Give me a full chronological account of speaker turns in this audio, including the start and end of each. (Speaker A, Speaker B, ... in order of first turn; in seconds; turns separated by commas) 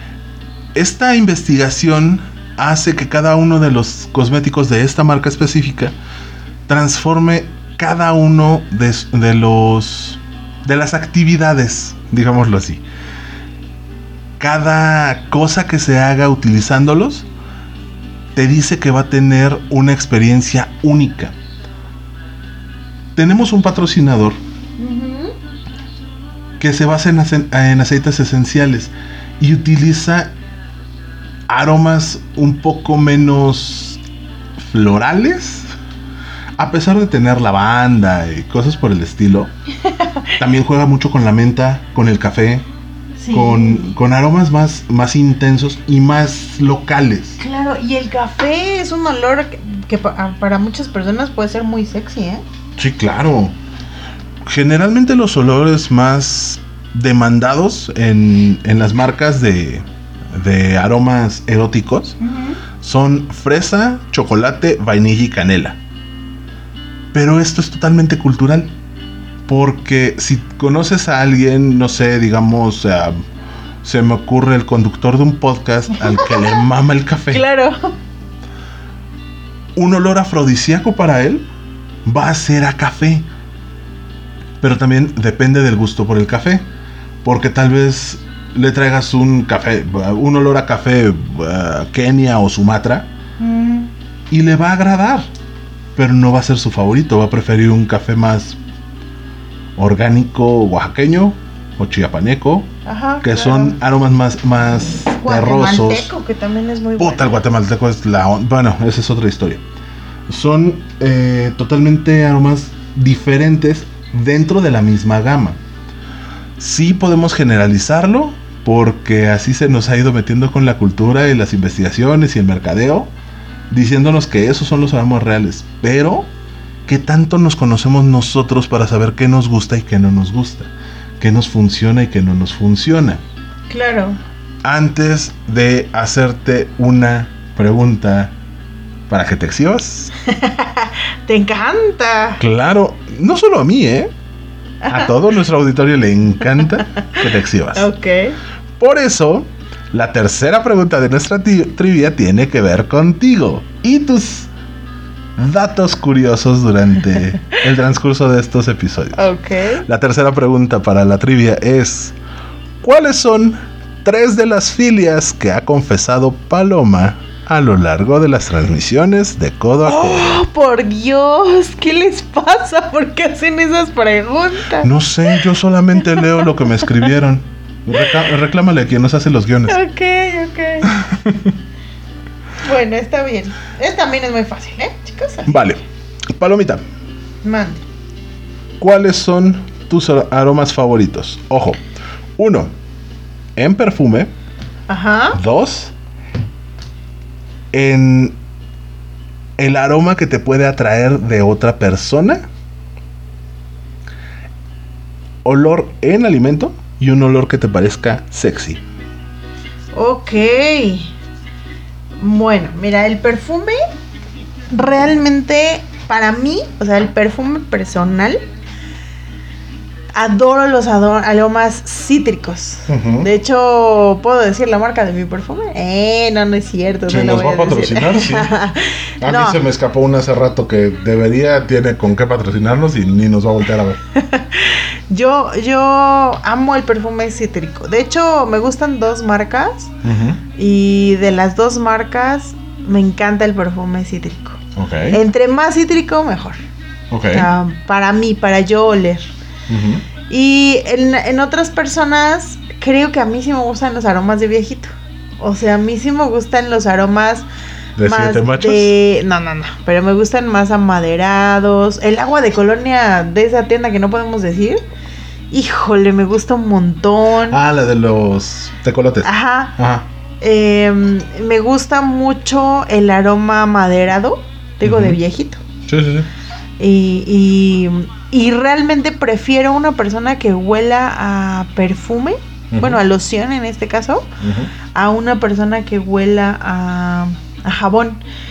Speaker A: 0.7-5.9, Speaker A: 6.7-12.8, Speaker A: 14.4-17.3, Speaker A: 18.3-21.3, Speaker A: 23.1-24.4, Speaker B: 24.8-25.3, Speaker A: 26.6-30.3, Speaker A: 31.5-34.0, Speaker A: 34.6-35.7, Speaker A: 36.6-39.5, Speaker B: 39.8-40.4, Speaker A: 40.4-42.6, Speaker B: 43.2-43.9, Speaker A: 43.3-47.4, Speaker B: 47.4-52.4, Speaker A: 52.8-53.5, Speaker A: 54.4-62.2, Speaker B: 62.2-62.6, Speaker A: 62.8-65.8, Speaker A: 67.1-68.7, Speaker A: 69.5-73.2, Speaker A: 73.8-77.4, Speaker B: 76.1-76.6, Speaker B: 77.3-77.9, Speaker A: 79.8-81.5, Speaker A: 82.0-83.3, Speaker A: 84.6-86.6, Speaker A: 87.2-93.1, Speaker B: 93.4-93.9, Speaker A: 94.3-95.3, Speaker A: 95.9-98.6, Speaker A: 99.8-102.7, Speaker B: 102.8-103.8, Speaker A: 103.2-106.1, Speaker B: 105.1-107.3, Speaker A: 107.0-109.6, Speaker A: 110.3-115.6, Speaker A: 116.6-123.1, Speaker A: 123.7-126.3, Speaker A: 126.8-133.2, Speaker B: 133.7-134.2, Speaker A: 134.6-138.3, Speaker A: 139.1-140.1, Speaker B: 140.2-142.4, Speaker A: 142.4-144.1, Speaker B: 144.8-145.2, Speaker A: 144.9-147.9, Speaker B: 147.7-148.4, Speaker A: 148.8-154.5, Speaker A: 155.4-159.2, Speaker B: 159.1-159.8, Speaker A: 159.8-162.2, Speaker A: 162.8-170.4, Speaker B: 169.8-175.4, Speaker A: 174.8-179.8, Speaker B: 176.0-176.9, Speaker B: 179.7-181.0, Speaker A: 180.9-181.5, Speaker B: 182.6-185.5, Speaker A: 185.5-185.8, Speaker A: 186.3-186.8, Speaker B: 187.4-187.8, Speaker A: 188.8-191.8, Speaker A: 192.4-192.7, Speaker A: 193.6-194.3, Speaker B: 194.9-195.4, Speaker A: 195.3-195.9, Speaker A: 197.7-198.4, Speaker A: 199.6-202.5, Speaker A: 205.4-208.8, Speaker B: 209.9-211.1, Speaker B: 212.2-213.8, Speaker B: 214.7-218.4, Speaker B: 220.2-229.6, Speaker A: 222.9-223.3, Speaker A: 227.1-228.6, Speaker A: 229.2-234.0, Speaker B: 234.1-239.9, Speaker A: 240.0-240.4, Speaker B: 240.6-244.6, Speaker A: 244.8-245.2, Speaker B: 245.1-246.6, Speaker A: 247.1-247.5, Speaker B: 247.3-249.3, Speaker A: 249.7-250.0, Speaker B: 250.3-254.9, Speaker B: 255.4-257.4, Speaker A: 258.0-258.9, Speaker B: 258.0-264.8, Speaker B: 265.5-267.6, Speaker A: 267.5-270.1, Speaker B: 269.2-269.8, Speaker B: 270.4-275.6, Speaker A: 274.8-275.2, Speaker A: 275.9-276.3, Speaker B: 276.8-284.3, Speaker A: 282.7-283.0, Speaker A: 284.4-284.7, Speaker B: 284.9-288.2